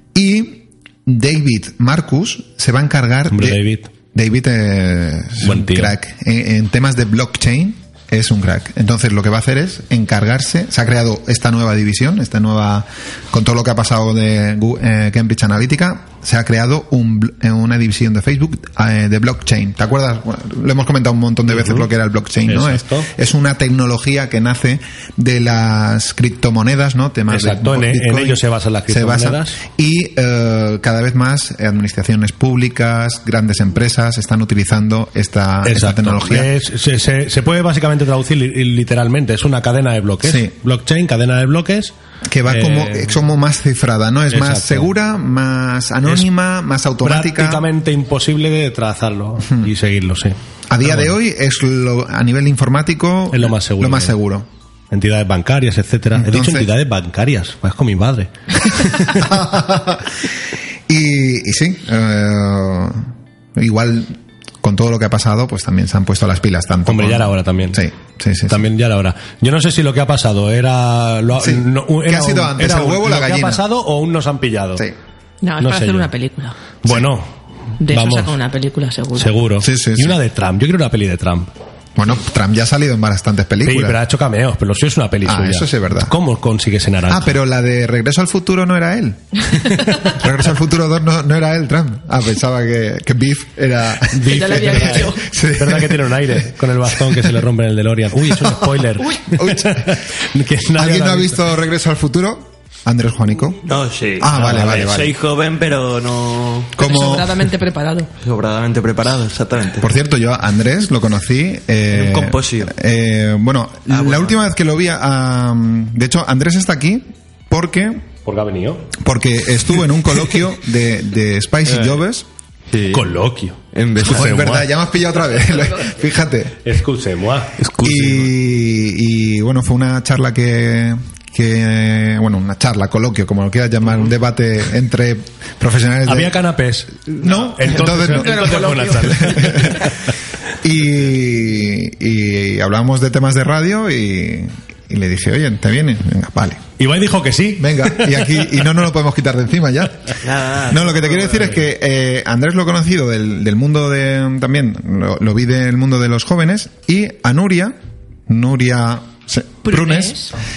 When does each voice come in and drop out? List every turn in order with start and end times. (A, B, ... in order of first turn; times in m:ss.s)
0:00.1-0:36.5 A
0:03.3-0:03.9 B
0:05.4-0:05.9 B
0:21.5-0:21.9 B
0:22.4-0:23.1 B
0:27.3-0:29.6 B
0:35.6-0:41.9 B
0:40.2-0:40.5 A
0:42.2-0:47.6 A
0:42.5-0:43.2 B
0:44.3-0:44.9 B
0:47.0-0:51.1 B
0:50.7-0:54.5 A
0:53.3-0:54.1 B
0:54.9-0:59.3 B
0:56.1-0:56.7 A
0:59.1-1:00.1 A
1:00.9-1:08.7 A
1:06.9-1:07.8 B
1:08.5-1:14.8 B
1:11.4-1:13.6 A
1:15.4-1:16.6 C
1:15.6-1:16.1 B
1:16.8-1:17.3 B
1:17.8-1:19.3 C
1:17.9-1:18.3 B
1:19.2-1:21.5 B
1:19.6-1:20.2 A
1:22.0-1:24.0 A
1:23.6-1:27.3 B
1:25.2-1:26.1 A
1:27.1-1:29.5 A
1:30.0-1:37.3 A
1:34.1-1:41.4 B
1:34.3-1:35.2 C
1:38.3-1:38.6 A
1:39.3-1:40.0 A
1:40.7-1:43.6 A
1:43.6-1:46.7 D
1:44.2-1:45.1 A
1:46.7-1:47.5 A
1:46.8-1:48.1 C
1:48.2-1:49.9 D
1:49.8-1:58.0 A
1:51.9-1:52.7 D
1:53.9-1:54.4 D
1:58.2-1:58.9 B
1:58.9-2:02.3 A
2:02.7-2:03.1 D
2:02.9-2:04.7 B
2:03.7-2:04.3 D
2:04.0-2:06.6 A
2:06.6-2:07.6 B
2:07.6-2:08.1 D
2:07.8-2:16.4 A
2:16.0-2:19.9 B
2:17.2-2:19.9 A
2:18.1-2:19.2 C
2:20.6-2:26.6 A
2:26.8-2:28.4 B
2:27.6-2:37.8 A
2:30.2-2:31.5 D
2:38.3-2:40.2 A
2:39.6-2:40.3 C